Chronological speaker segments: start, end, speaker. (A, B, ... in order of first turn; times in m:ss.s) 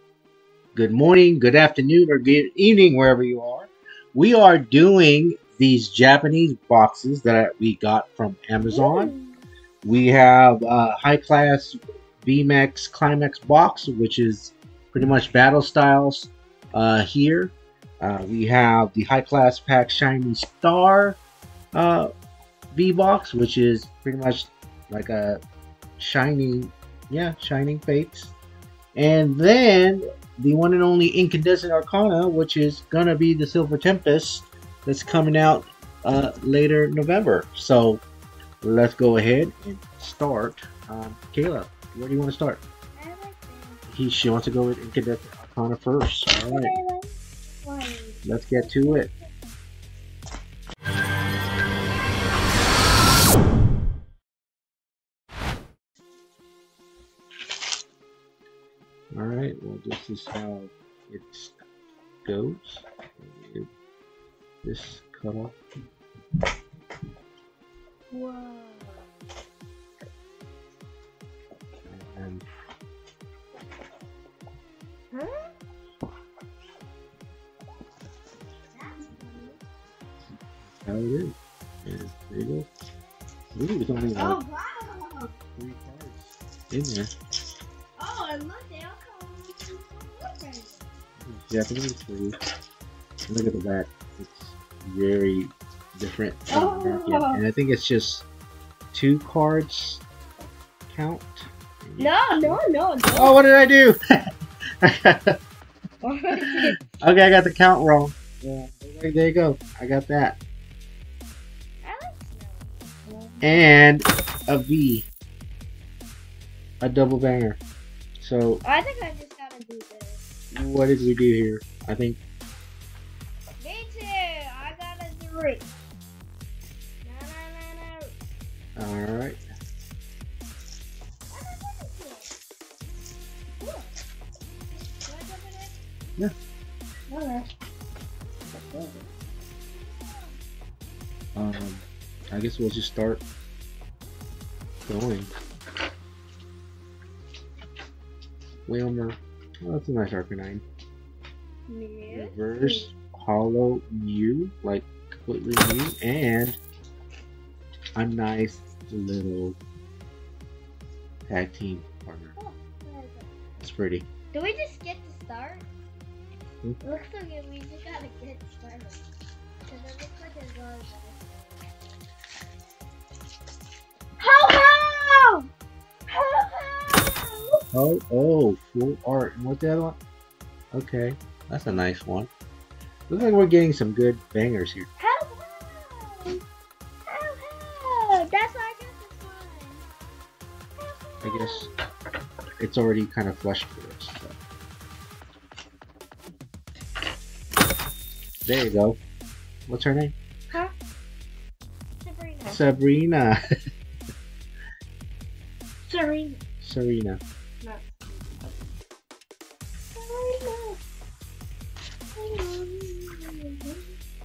0:00.7-0:09.1 A
0:08.7-0:09.4 B
0:09.8-0:21.2 A
0:21.7-0:22.1 A
0:22.7-0:25.4 A
0:26.0-0:28.3 A
0:28.9-0:38.0 A
0:38.6-0:42.6 A
0:43.0-0:43.8 B
0:43.9-0:46.7 A
0:46.3-0:49.3 B
0:48.2-0:49.1 A
0:59.1-1:01.5 A
1:02.2-1:03.7 A
1:04.6-1:05.6 A
1:08.1-1:09.0 B
1:11.9-1:12.4 A
1:15.1-1:15.5 B
1:18.7-1:19.6 B
1:20.6-1:22.7 A
1:23.5-1:24.4 A
1:24.2-1:25.3 B
1:25.6-1:27.1 A
1:28.0-1:30.9 B
1:31.2-1:32.3 A
1:33.3-1:38.2 A
1:36.5-1:37.4 B
1:38.9-1:40.0 A
1:40.9-1:42.6 A
1:42.0-1:43.3 B
1:43.2-1:44.0 A
1:44.8-1:45.4 A
1:46.0-1:46.8 B
1:46.4-1:50.4 A
1:51.8-1:53.6 B
1:53.4-1:55.1 A
1:56.8-1:57.6 A
1:58.2-1:58.6 A
1:58.6-2:00.2 B
2:00.5-2:02.2 A
2:03.6-2:05.7 B
2:07.0-2:08.1 B
2:08.8-2:09.4 A
2:11.3-2:12.3 B
2:13.6-2:13.9 B
2:15.0-2:15.8 B
2:17.1-2:17.5 B
2:18.6-2:19.1 B
2:19.7-2:20.3 B
2:21.3-2:23.2 A
2:24.8-2:25.3 A
2:28.7-2:30.6 A
2:31.7-2:32.9 B
2:32.1-2:36.6 A
2:38.0-2:39.6 A
2:41.3-2:42.4 A
2:42.4-2:43.3 B
2:43.6-2:44.0 A
2:44.3-2:45.7 B
2:46.8-2:49.0 B
2:49.7-2:51.8 B
2:54.2-2:55.5 B
2:56.1-2:57.6 B
2:57.7-3:00.0 A
3:00.7-3:02.3 A
3:03.1-3:04.9 A
3:05.0-3:06.4 B
3:07.1-3:09.9 B
3:10.8-3:11.7 B
3:11.2-3:11.7 A
3:12.6-3:14.4 A
3:18.4-3:19.0 A
3:19.7-3:20.1 A
3:22.0-3:22.6 B
3:22.5-3:23.4 A
3:25.8-3:26.4 B
3:26.6-3:27.2 A
3:27.6-3:28.6 B
3:29.9-3:30.8 B
3:32.1-3:33.9 B